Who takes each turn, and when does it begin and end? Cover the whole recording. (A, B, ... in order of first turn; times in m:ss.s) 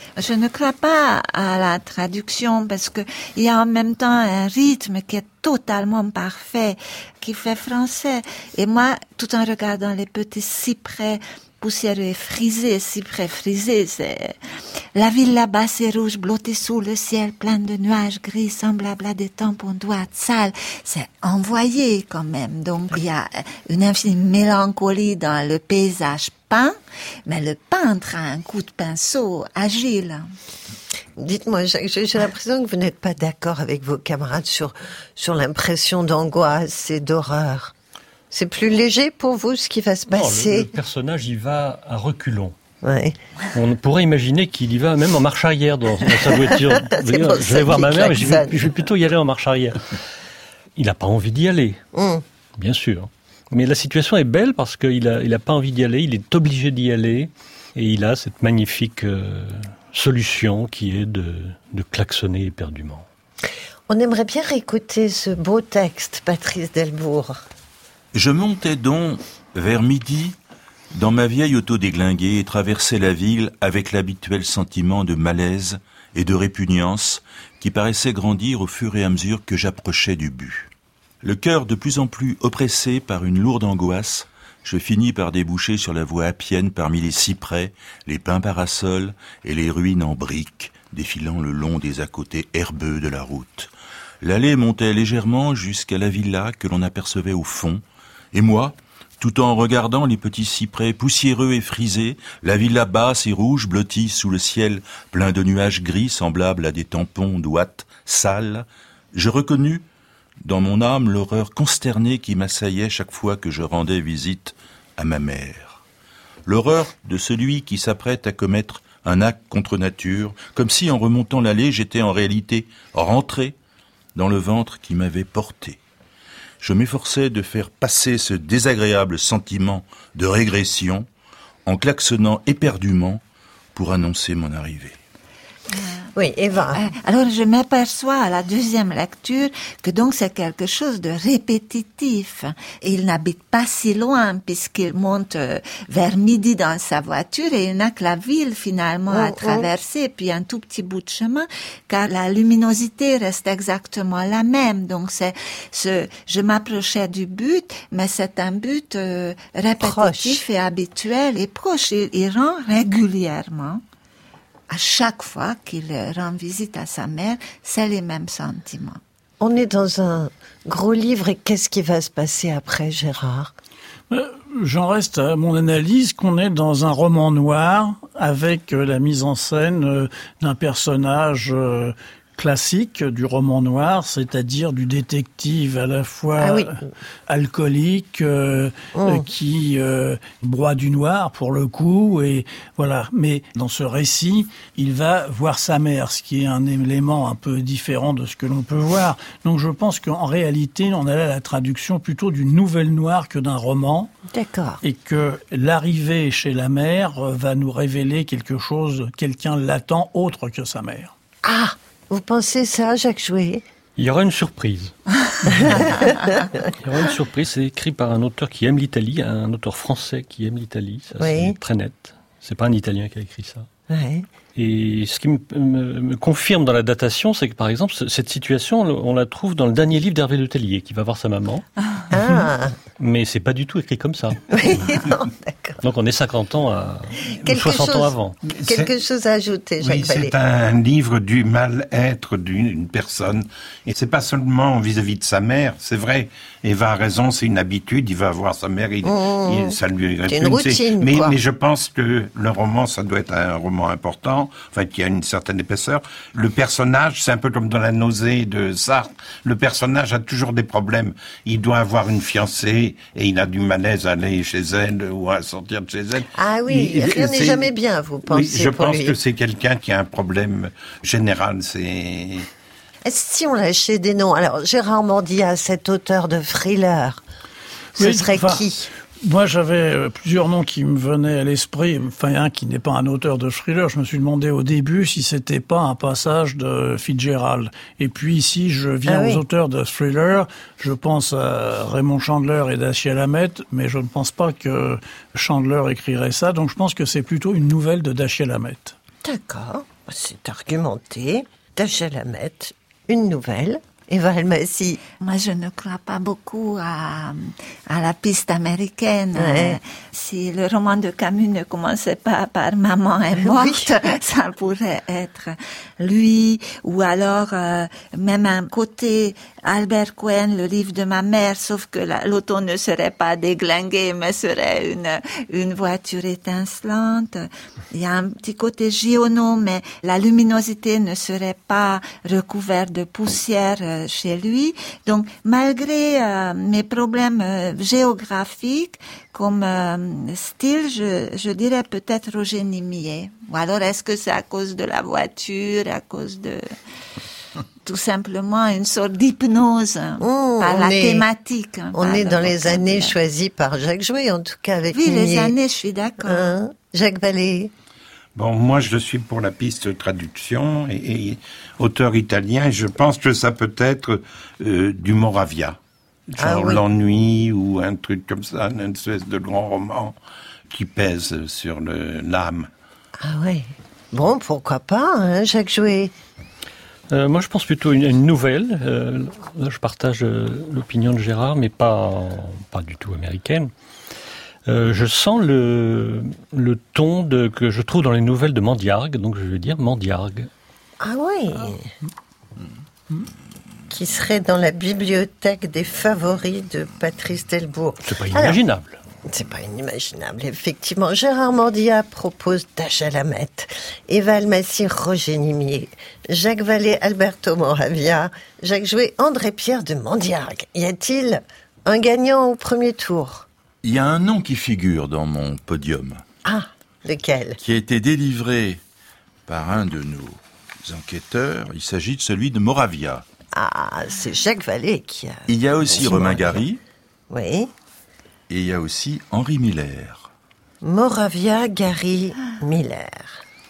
0:00.2-0:14.4 A
0:15.0-0:30.3 A
0:31.2-0:37.7 B
0:38.3-0:40.7 B
0:40.1-0:42.6 C
0:42.8-0:43.2 B
0:43.5-0:50.0 C
0:46.5-0:48.8 B
0:50.8-0:51.8 C
0:51.9-0:52.2 B
0:52.6-1:03.1 C
1:03.9-1:07.4 B
1:08.1-1:10.4 D
1:10.9-1:20.7 D
1:21.2-1:33.7 D
1:34.2-1:49.8 D
1:50.4-1:55.8 D
1:56.4-2:03.6 D
2:04.1-2:05.8 D
2:06.6-2:11.1 D
2:11.7-2:13.2 D
2:13.7-2:15.0 D
2:16.1-2:16.9 B
2:16.7-2:43.8 A
2:29.1-2:29.7 B
2:39.8-2:40.4 B
2:44.7-2:49.0 A
2:49.4-2:53.5 B
2:54.1-3:06.8 E
3:06.4-3:06.9 B
3:07.3-3:24.1 E
3:09.0-3:09.3 B
3:24.3-3:24.8 B
3:24.8-3:31.1 E
3:31.4-3:33.6 B
3:34.0-3:36.1 C
3:35.6-3:36.4 B
3:36.8-3:43.7 C
3:41.2-3:41.6 B
3:43.9-3:44.3 B
3:44.6-3:51.6 C
3:52.1-3:52.8 B
3:53.0-3:55.0 C
3:54.5-3:55.8 B
3:55.8-3:58.4 C
3:57.4-4:00.3 B
3:58.5-3:58.9 F
3:59.8-4:27.7 F
4:09.0-4:09.8 B
4:10.3-4:11.4 B
4:26.3-4:29.2 B
4:28.3-4:32.5 F
4:33.0-4:37.2 B
4:38.0-4:38.9 B
4:38.0-4:38.7 E
4:39.2-4:59.0 E
4:49.1-4:49.4 B
4:59.2-5:05.0 B
5:05.2-5:46.6 A
5:09.4-5:09.8 B
5:13.4-5:13.9 B
5:47.8-5:53.2 A
5:50.2-5:51.3 B
5:51.9-5:55.6 B
5:54.9-5:56.5 A
5:56.2-5:57.7 B
5:58.4-6:05.8 F
6:06.3-6:10.2 F
6:06.4-6:06.8 B
6:10.7-6:12.7 F
6:13.2-6:16.1 B
6:17.1-6:23.7 C
6:24.7-6:30.5 C
6:31.0-6:31.9 B
6:33.9-6:38.6 B
6:38.0-6:39.0 C
6:39.3-6:53.4 B
6:53.8-6:56.2 D
6:56.4-6:57.6 B
6:57.6-6:58.8 D
6:59.4-7:03.2 D
7:03.5-7:06.6 B
7:05.5-7:06.8 D
7:07.3-7:07.7 B
7:08.5-7:10.3 D
7:10.8-7:13.4 B